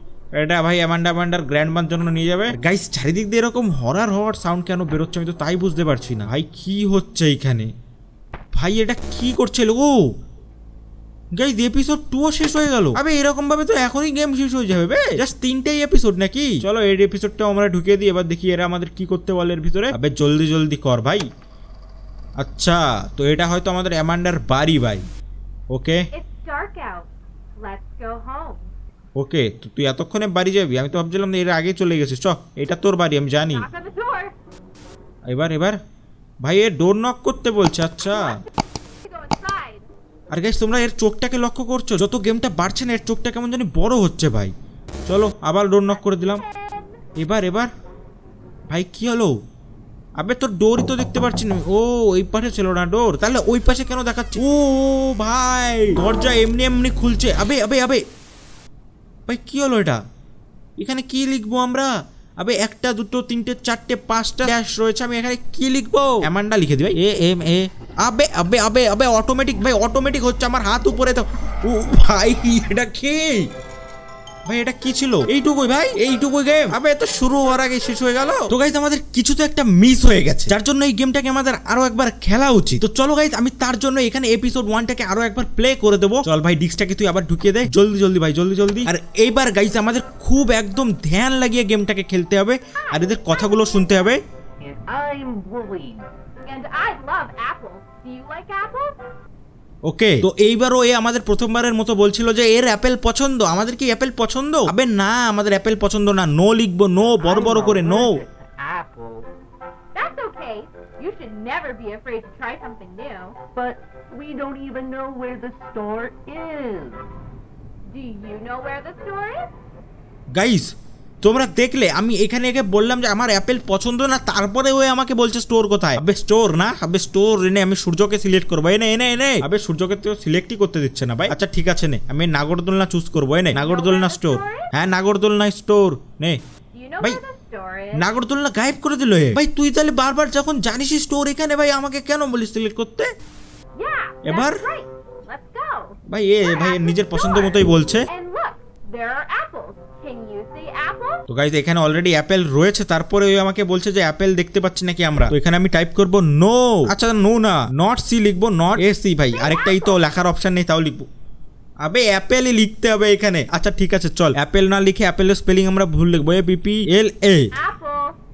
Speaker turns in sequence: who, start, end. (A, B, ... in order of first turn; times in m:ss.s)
0:00.4-0:07.7 A
0:08.5-0:10.0 A
0:11.4-0:21.2 A
0:22.4-0:25.0 A
0:25.7-0:26.1 A
0:26.1-0:28.7 B
0:29.2-0:33.7 A
0:33.5-0:34.3 B
0:35.3-0:35.8 A
0:36.4-0:38.4 A
0:38.1-0:38.4 B
0:39.0-0:39.9 B
0:40.3-0:44.5 A
0:45.1-0:46.4 A
0:46.0-0:46.9 B
0:47.2-0:47.7 A
0:48.7-0:49.4 A
0:50.2-0:58.0 A
0:59.3-1:00.0 A
1:00.8-1:13.5 A
1:14.5-1:34.2 A
1:32.8-1:34.1 B
1:34.6-1:36.1 C
1:36.4-1:39.0 B
1:39.9-1:48.2 A
1:47.2-1:49.3 C
1:50.0-1:53.4 B
1:53.6-1:57.1 C
1:57.9-1:59.5 B
2:00.4-2:16.4 A
2:13.5-2:14.7 B
2:16.7-2:18.1 B
2:17.9-2:23.1 A
2:23.8-2:31.2 B
2:24.3-2:24.6 A
2:26.1-2:28.1 A
2:31.3-2:41.1 A
2:39.3-2:40.0 B
2:41.8-2:47.5 A
2:47.5-2:48.2 B